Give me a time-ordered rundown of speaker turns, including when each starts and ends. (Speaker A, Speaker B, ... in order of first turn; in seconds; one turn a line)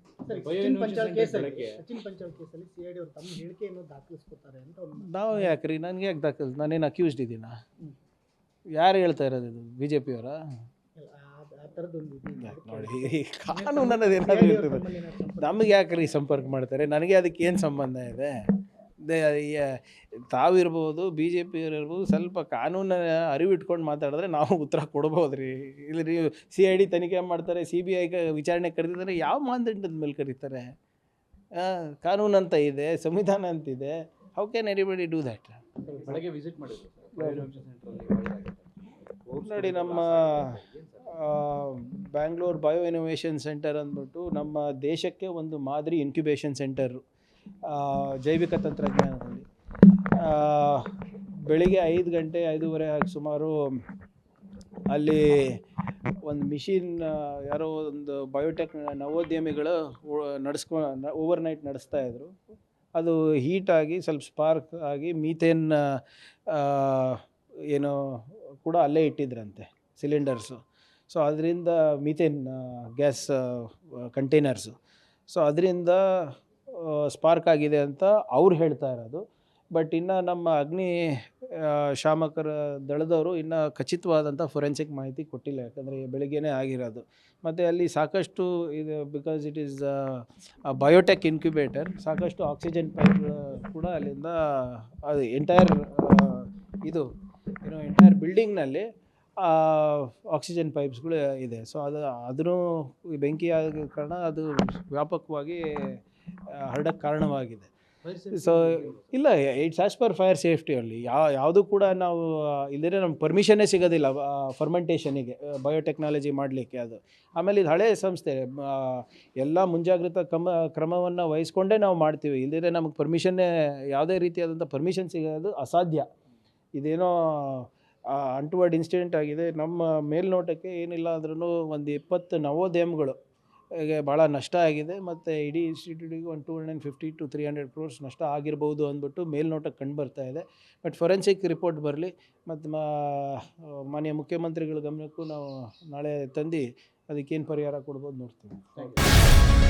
Speaker A: 0.3-5.6
Speaker B: 0.3-1.8
Speaker C: 5.0-7.5
Speaker C: 8.8-10.4
Speaker A: 11.0-15.7
Speaker C: 12.4-14.9
Speaker C: 15.4-18.3
Speaker C: 19.0-30.7
Speaker C: 31.6-36.2
Speaker B: 35.9-38.6
Speaker C: 37.1-37.5
Speaker B: 39.2-41.1
Speaker C: 39.4-47.0
Speaker C: 47.6-49.5
Speaker C: 50.1-50.9
Speaker C: 51.5-53.5
Speaker C: 54.9-55.6
Speaker C: 56.2-62.3
Speaker C: 63.0-74.8
Speaker C: 75.3-79.2
Speaker C: 79.7-97.1
Speaker C: 97.6-98.9
Speaker C: 99.4-105.6
Speaker C: 106.5-107.7
Speaker B: 108.1-109.0
Speaker C: 108.3-126.1
Speaker C: 126.8-133.2
Speaker C: 133.7-148.9